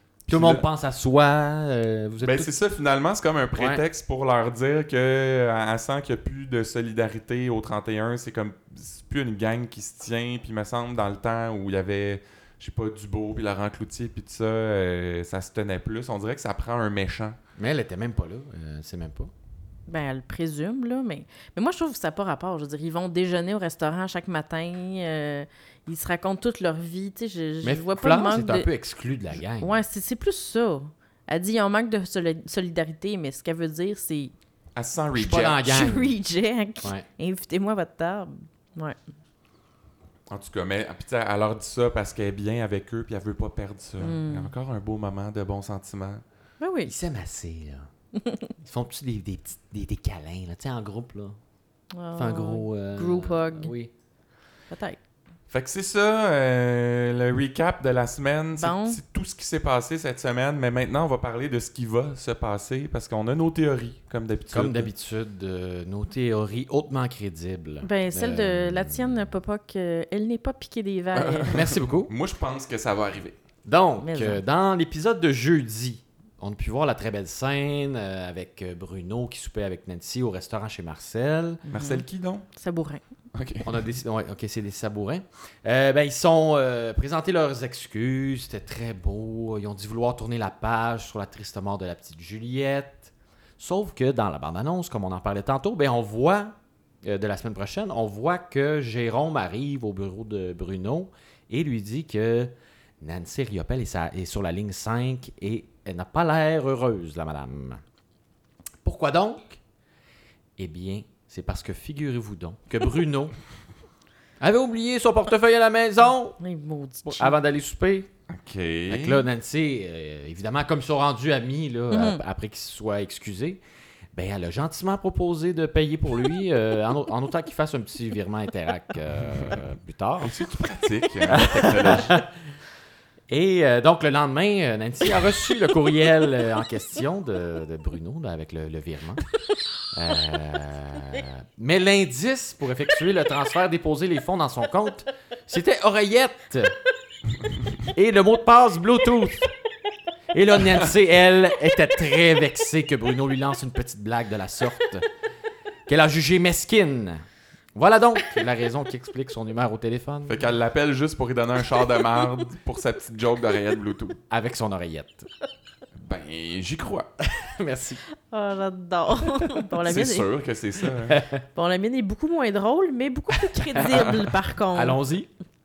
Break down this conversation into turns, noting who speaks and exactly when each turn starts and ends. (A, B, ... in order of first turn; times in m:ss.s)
0:00.3-0:00.6 A
0:00.3-0:02.5 B
0:02.2-0:17.4 A
0:03.6-0:03.8 B
0:17.6-0:19.3 B
0:19.9-0:28.7 C
0:27.6-0:29.8 B
0:29.6-0:34.3 C
0:34.8-0:35.6 A
0:35.1-0:36.2 B
0:35.6-0:39.0 C
0:40.3-0:46.2 A
0:44.0-0:44.5 C
0:46.6-0:46.9 C
0:46.8-0:47.9 B
0:48.6-0:51.4 B
0:51.9-0:53.7 C
0:52.1-0:53.9 B
0:54.7-0:55.0 C
0:55.5-1:04.9 A
0:58.6-0:59.0 C
1:04.5-1:09.3 B
1:07.8-1:11.6 C
1:11.1-1:13.4 A
1:11.5-1:12.1 B
1:13.6-1:21.6 B
1:14.0-1:14.4 C
1:21.7-1:23.0 C
1:21.7-1:22.5 A
1:23.3-1:23.8 A
1:23.6-1:47.8 B
1:48.8-1:49.6 B
1:50.6-1:53.4 B
1:54.4-1:56.4 B
1:56.4-1:57.4 C
1:57.0-1:58.1 B
1:58.3-1:59.2 A
1:58.9-2:03.6 B
2:01.9-2:02.2 C
2:04.1-2:10.4 B
2:10.2-2:12.2 A
2:11.3-2:12.3 B
2:13.3-2:19.2 B
2:19.9-2:26.8 B
2:27.9-2:29.5 B
2:30.3-2:35.1 B
2:35.9-2:37.2 B
2:37.8-2:40.4 B
2:40.3-2:44.2 A
2:44.3-2:45.3 B
2:46.0-2:47.1 A
2:47.2-2:48.0 B
2:48.3-2:50.3 C
2:49.9-2:51.2 A
2:51.1-2:51.4 B
2:51.6-2:55.0 C
2:53.3-2:54.2 B
2:54.7-2:55.3 B